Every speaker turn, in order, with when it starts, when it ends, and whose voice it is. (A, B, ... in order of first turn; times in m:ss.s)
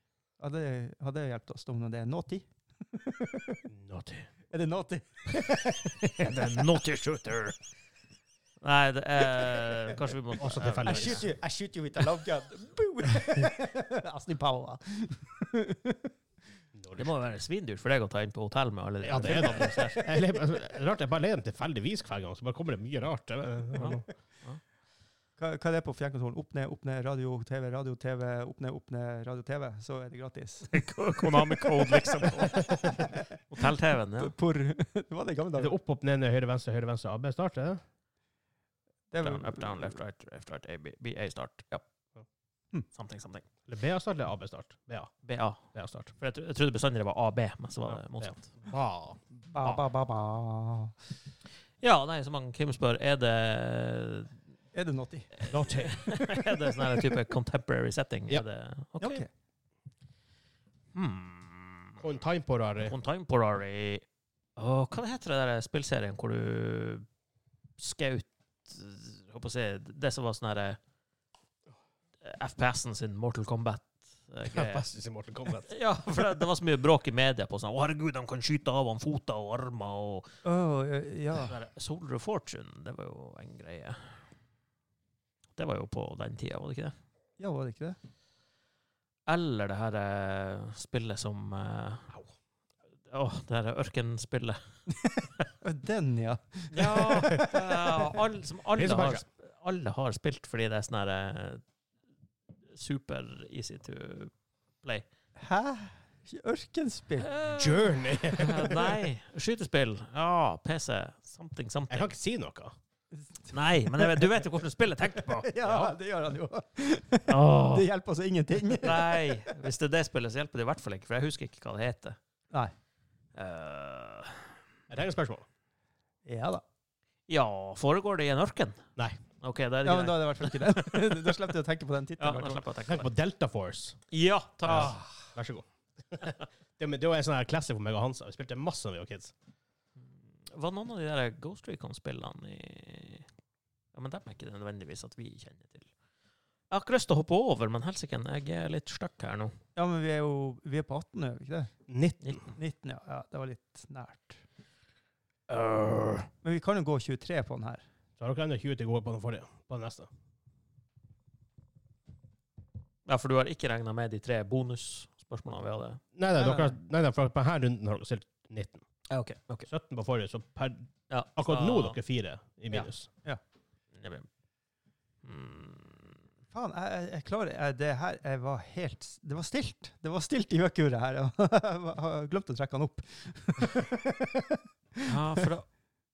0:00.4-0:03.6 A
0:03.7-0:04.3 B
0:04.5-0:06.6 A
0:05.5-0:07.6 C
0:08.6-0:11.3 C
0:09.2-0:10.0 A
0:10.4-0:11.3 B
0:10.8-0:16.2 A
0:16.8-0:17.2 B
0:17.0-0:20.0 C
0:19.0-0:24.0 B
0:19.2-0:20.2 A
0:23.8-0:24.6 C
0:25.4-0:33.6 A
0:30.7-0:34.3 C
0:34.2-0:35.7 A
0:35.6-0:37.8 B
0:39.1-0:40.0 A
0:39.2-0:41.8 C
0:42.9-0:43.5 C
0:43.7-0:45.2 B
0:45.2-0:48.5 C
0:45.7-0:46.1 B
0:47.9-0:49.2 B
0:49.5-0:51.0 A
0:51.8-0:54.3 C
0:54.7-0:55.5 A
0:55.4-0:59.2 C
0:55.4-0:56.2 B
0:59.0-0:59.3 A
1:00.9-1:02.0 C
1:02.0-1:02.9 B
1:02.8-1:04.0 C
1:04.6-1:07.1 C
1:07.8-1:10.8 C
1:12.2-1:14.8 C
1:14.5-1:15.7 B
1:15.6-1:20.3 C
1:20.4-1:21.6 A
1:21.3-1:24.2 C
1:25.6-1:27.0 C
1:27.4-1:28.0 A
1:29.3-1:32.2 C
1:33.1-1:34.7 C
1:35.6-1:38.2 A
1:36.7-1:41.6 C
1:38.8-1:39.2 B
1:42.7-1:45.1 C
1:45.4-1:47.4 A
1:47.2-1:52.1 C
1:47.5-1:48.9 B
1:48.6-1:48.9 A
1:51.9-1:52.8 B
1:53.2-1:54.4 A
1:53.5-1:55.5 C
1:55.1-1:59.5 A
1:55.6-1:55.9 B
1:57.3-1:57.9 C
1:58.8-2:02.2 C
2:03.4-2:04.5 C
2:04.9-2:05.5 B
2:06.2-2:06.6 A
2:07.3-2:11.5 C
2:09.8-2:12.6 A
2:12.2-2:13.1 C
2:12.9-2:14.0 B
2:14.1-2:15.0 C
2:14.6-2:19.3 B
2:14.7-2:15.0 A
2:20.0-2:23.3 C
2:23.9-2:25.9 C
2:26.7-2:29.6 C
2:29.8-2:31.7 A
2:31.9-2:32.4 B
2:32.2-2:32.5 C
2:32.5-2:34.4 A
2:35.5-2:36.3 C
2:36.4-2:37.8 A
2:38.2-2:40.1 B
2:43.1-2:46.0 C
2:46.2-2:48.8 B
2:46.4-2:46.8 A
2:49.1-2:49.7 C
2:49.7-2:53.1 B
2:51.1-2:52.0 C
2:54.0-2:54.3 C
2:55.2-2:56.2 C
2:56.5-3:05.4 A
3:05.0-3:05.7 C